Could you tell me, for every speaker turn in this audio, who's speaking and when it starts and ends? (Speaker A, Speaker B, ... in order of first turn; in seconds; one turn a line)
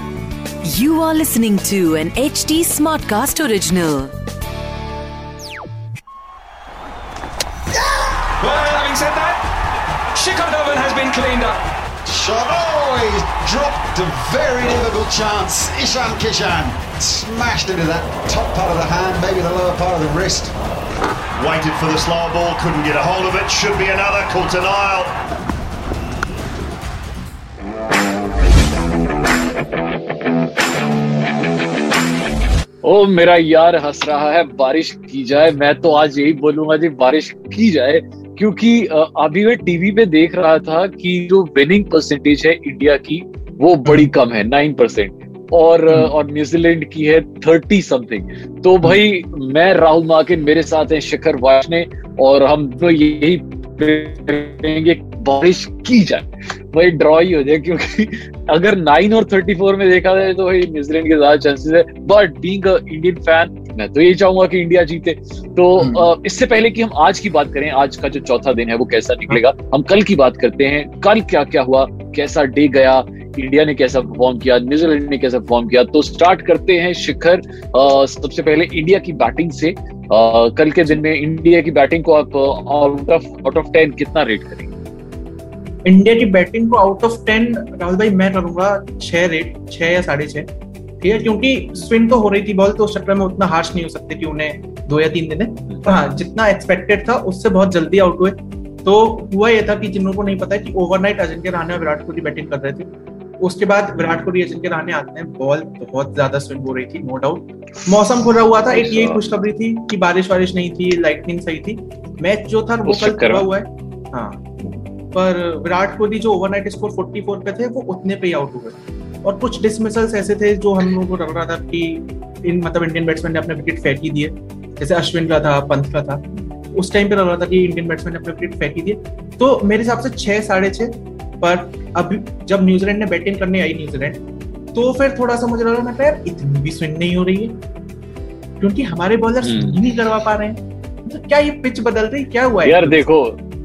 Speaker A: 0.6-4.1
Speaker B: 8.4-9.4
Speaker B: 10.1-11.6
Speaker C: 12.0-20.5
Speaker D: 21.4-25.1
Speaker C: 21.4-22.8
Speaker E: 32.8-84.7
Speaker F: 45.9-46.1
Speaker F: 65.8-66.1
Speaker F: 85.8-90.5
Speaker F: 91.0-102.9
Speaker F: 103.4-114.4
Speaker E: 108.7-109.2
Speaker E: 112.9-113.5
Speaker F: 115.1-134.2
Speaker F: 134.7-137.6
Speaker F: 138.6-143.0
Speaker E: 139.4-139.8
Speaker E: 142.6-143.4